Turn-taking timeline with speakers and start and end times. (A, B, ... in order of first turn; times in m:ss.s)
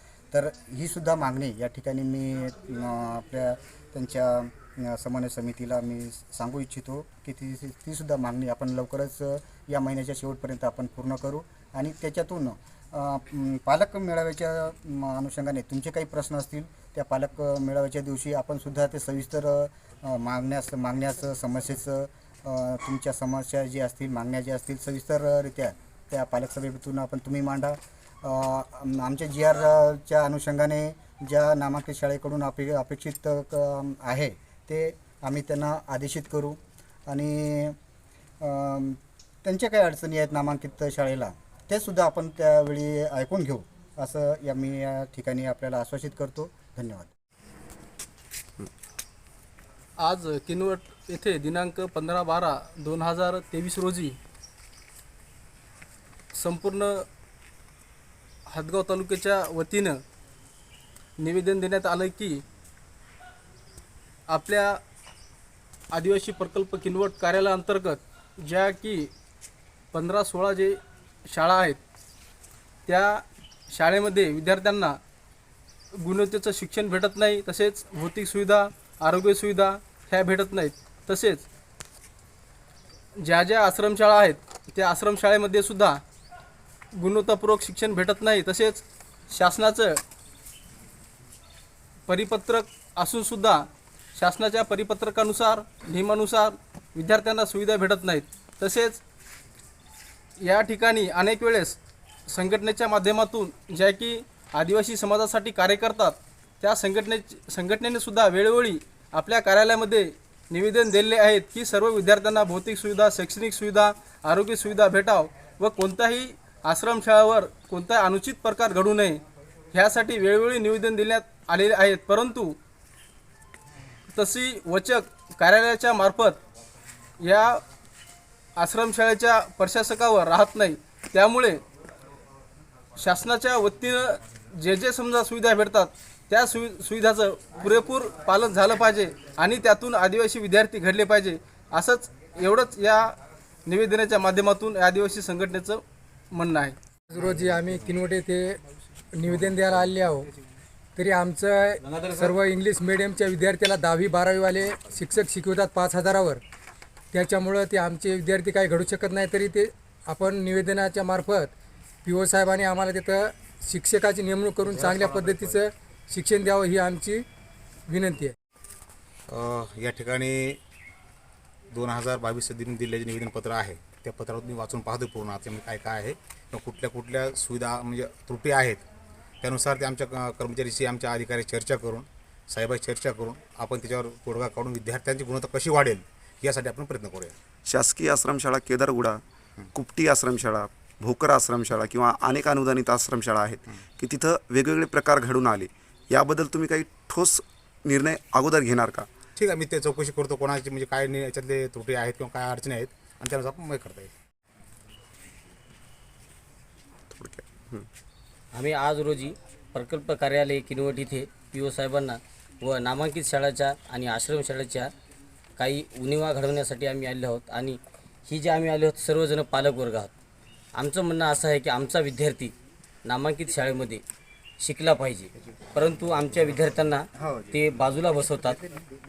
0:00.3-0:37.8 A
0:38.4-0:47.1 A
0:50.0-0:54.2 B
0:56.3-0:57.1 B
0:58.5-1:00.0 B
1:01.2-1:02.4 B
1:04.3-1:04.8 B
1:05.9-1:09.1 B
1:09.9-1:11.8 B
1:12.8-1:15.0 B
1:15.9-1:21.4 B
1:23.2-1:26.0 B
1:26.9-1:30.0 B
1:32.1-1:39.0 B
1:40.4-2:02.6 B
2:04.1-2:06.4 B
2:07.2-2:07.6 B
2:08.6-2:11.6 B
2:13.0-2:26.8 B
2:27.1-2:28.6 C
2:29.1-2:30.3 C
2:31.0-2:36.4 C
2:37.1-2:41.5 C
2:42.0-2:47.2 C
2:44.9-2:45.5 D
2:47.9-2:48.3 C
2:49.3-2:50.6 D
2:51.7-2:58.8 D
2:59.4-3:07.4 D
3:07.6-3:09.2 E
3:09.6-3:09.8 D
3:09.7-3:19.1 E
3:19.4-3:24.1 D
3:27.1-3:27.9 E
3:28.5-3:34.9 F
3:35.6-3:40.1 F
3:40.7-3:42.5 F
3:43.0-3:44.0 F
3:44.6-3:48.6 F
3:47.2-3:47.5 A